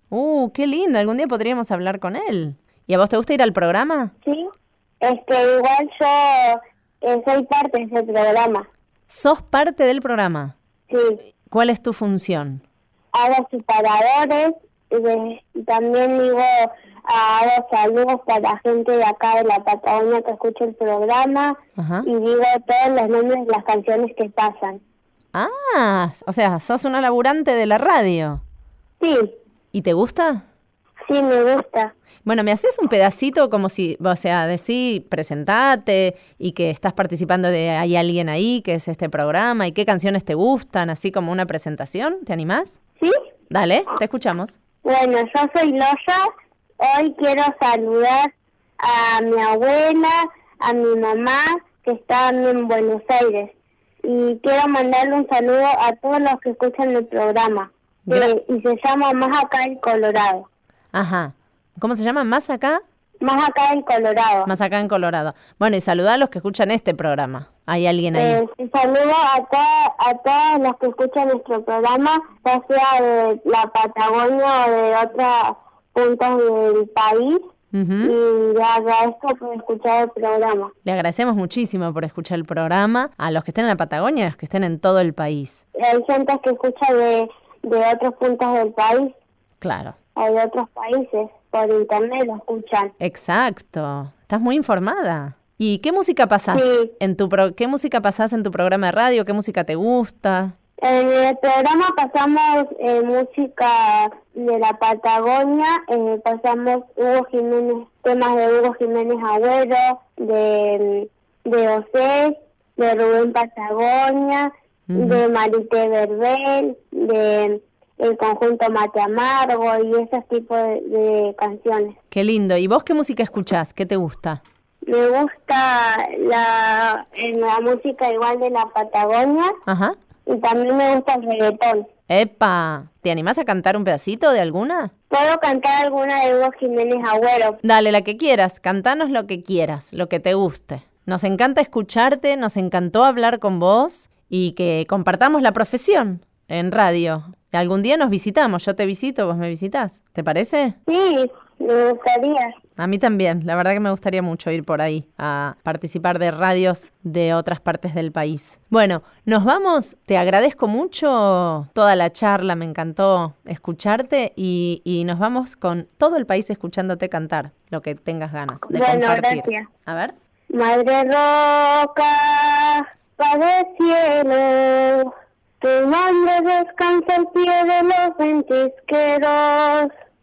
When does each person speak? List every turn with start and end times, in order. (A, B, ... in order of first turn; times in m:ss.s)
0:00.1-0:04.1 A
0:05.0-0:08.7 B
0:09.1-0:10.5 A
0:10.9-0:11.2 B
0:11.5-0:12.6 A
0:13.1-0:24.8 B
0:21.8-0:22.1 A
0:25.3-0:28.4 A
0:29.0-0:29.3 B
0:29.7-0:30.4 A
0:31.1-0:31.9 B
0:32.3-0:42.8 A
0:43.5-0:44.6 A
0:44.8-0:46.2 B
0:46.8-0:48.3 B
0:48.8-1:00.5 B
0:58.1-0:58.3 A
1:00.9-1:02.8 A
1:03.2-1:04.5 B
1:04.5-1:08.4 A
1:08.2-1:17.4 B
1:17.7-1:18.1 A
1:18.0-1:20.7 B
1:20.8-1:25.6 A
1:25.8-1:29.2 B
1:29.6-1:30.0 A
1:30.2-1:32.9 B
1:33.0-1:40.6 A
1:36.5-1:36.9 B
1:40.8-2:02.0 B
1:54.9-1:55.2 A
2:02.1-2:04.4 A
2:04.9-2:09.6 B
2:09.7-2:10.0 A
2:10.3-2:11.9 B
2:12.1-2:14.9 A
2:15.1-2:17.6 B
2:17.6-2:30.8 A
2:30.9-2:32.6 B
2:32.8-2:50.2 A
2:48.7-2:49.7 B
2:50.5-2:59.9 B